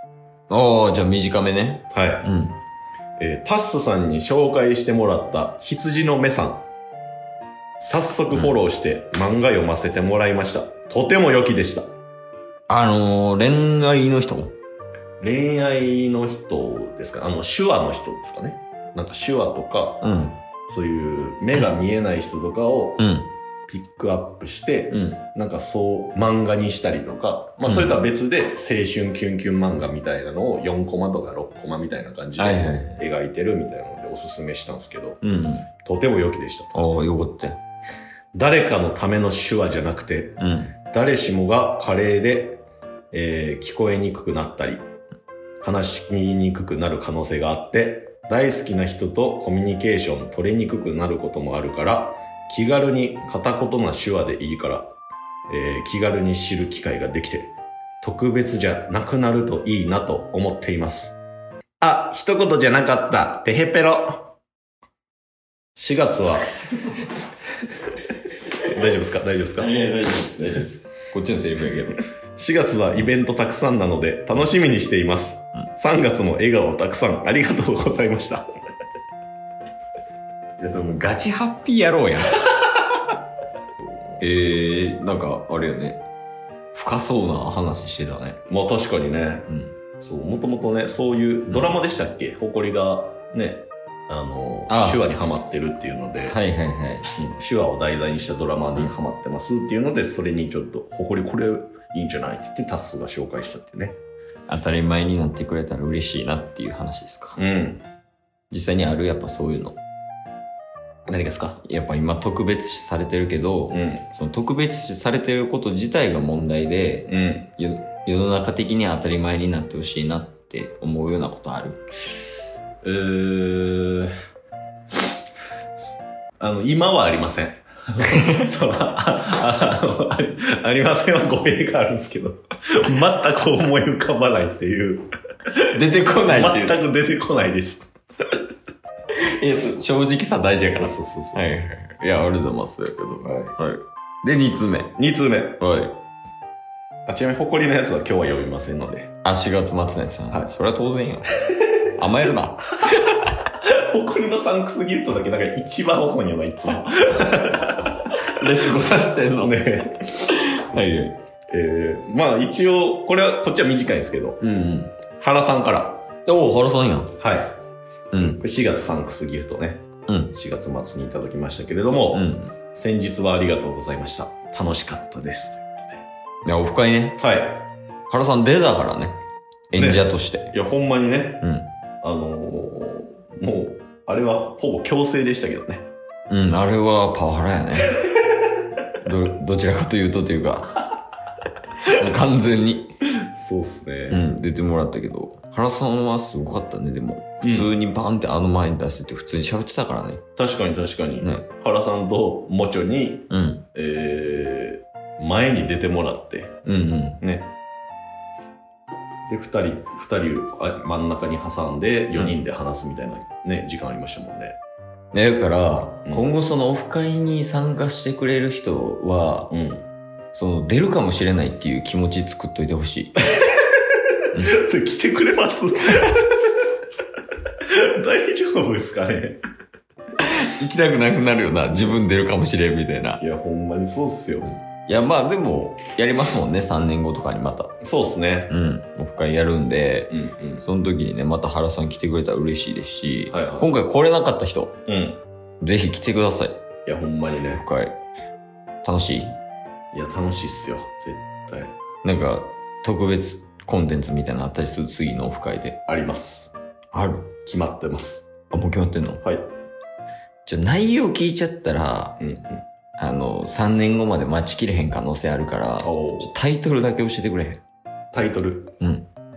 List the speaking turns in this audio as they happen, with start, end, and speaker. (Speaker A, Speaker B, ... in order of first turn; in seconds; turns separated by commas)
Speaker A: 0.5-2.6, Speaker B: 1.9-2.3, Speaker B: 3.2-6.6, Speaker B: 7.8-11.8, Speaker A: 12.7-14.5, Speaker B: 15.2-20.1, Speaker A: 20.0-20.4, Speaker B: 20.7-23.0, Speaker A: 23.0-23.3, Speaker B: 23.7-35.2, Speaker A: 24.9-25.2, Speaker A: 27.6-28.0, Speaker A: 32.4-33.0, Speaker A: 35.2-35.7, Speaker B: 35.8-36.8, Speaker A: 36.7-37.6, Speaker B: 38.3-40.4, Speaker A: 40.4-40.8, Speaker B: 40.9-44.8, Speaker B: 45.6-54.9, Speaker B: 55.5-61.2, Speaker B: 61.8-64.3, Speaker B: 65.8-66.5, Speaker B: 68.7-69.7, Speaker A: 69.6-72.0, Speaker B: 72.4-78.5, Speaker A: 80.6-82.8, Speaker A: 84.2-86.0, Speaker A: 86.7-88.4, Speaker B: 88.5-89.5, Speaker A: 89.5-89.7, Speaker B: 90.0-96.4, Speaker A: 94.7-95.0, Speaker A: 96.3-97.1, Speaker B: 97.2-104.0, Speaker A: 104.5-107.4, Speaker B: 107.4-107.8, Speaker A: 108.5-109.8, Speaker B: 111.1-111.6, Speaker A: 111.6-121.8, Speaker B: 113.7-114.0, Speaker B: 117.1-117.5, Speaker B: 122.8-124.1, Speaker B: 126.4-135.1, Speaker A: 128.1-128.4, Speaker A: 135.7-136.8, Speaker B: 135.8-137.9, Speaker A: 139.4-145.0, Speaker B: 140.7-141.4, Speaker B: 143.2-143.5, Speaker B: 145.0-145.6, Speaker A: 145.6-146.0, Speaker B: 147.1-149.1, Speaker A: 149.2-151.3, Speaker A: 151.9-153.1, Speaker B: 153.7-158.0, Speaker A: 158.2-159.6, Speaker B: 159.4-160.8, Speaker A: 160.3-161.2, Speaker B: 161.5-166.1, Speaker A: 166.3-167.1, Speaker B: 167.2-167.6, Speaker A: 168.1-168.4, Speaker B: 168.2-176.0, Speaker A: 170.1-170.3, Speaker A: 172.1-172.5, Speaker A: 176.4-177.2, Speaker B: 177.2-177.7, Speaker A: 178.1-179.2, Speaker A: 179.7-180.5, Speaker B: 179.8-181.4, Speaker A: 181.4-181.7, Speaker B: 182.0-185.9, Speaker A: 186.3-188.0, Speaker A: 189.0-190.9, Speaker A: 191.8-192.9, Speaker B: 193.2-194.2, Speaker A: 194.1-200.2, Speaker B: 197.4-197.7, Speaker B: 200.4-206.5, Speaker A: 201.2-201.5, Speaker A: 203.3-203.7, Speaker A: 206.7-207.2, Speaker B: 207.2-207.5, Speaker B: 209.3-214.6, Speaker A: 215.1-219.5, Speaker B: 219.5-219.9, Speaker A: 220.3-223.2, Speaker A: 224.3-224.6, Speaker B: 224.5-226.5, Speaker B: 227.7-229.4, Speaker A: 230.2-233.2, Speaker B: 233.2-234.6, Speaker A: 234.7-237.7, Speaker B: 237.8-238.5, Speaker A: 238.5-244.8, Speaker B: 240.1-240.6, Speaker B: 243.3-243.7, Speaker B: 244.9-245.2, Speaker A: 245.6-246.6, Speaker B: 246.9-247.6, Speaker A: 247.5-248.0, Speaker A: 248.8-249.4, Speaker B: 249.9-251.7, Speaker A: 252.0-255.8, Speaker B: 255.9-256.5, Speaker A: 256.9-257.3, Speaker B: 257.5-258.3, Speaker A: 258.5-259.3, Speaker A: 260.5-262.2, Speaker B: 262.2-262.6, Speaker A: 263.0-267.6, Speaker B: 265.8-266.3, Speaker B: 268.1-268.7, Speaker A: 268.8-269.1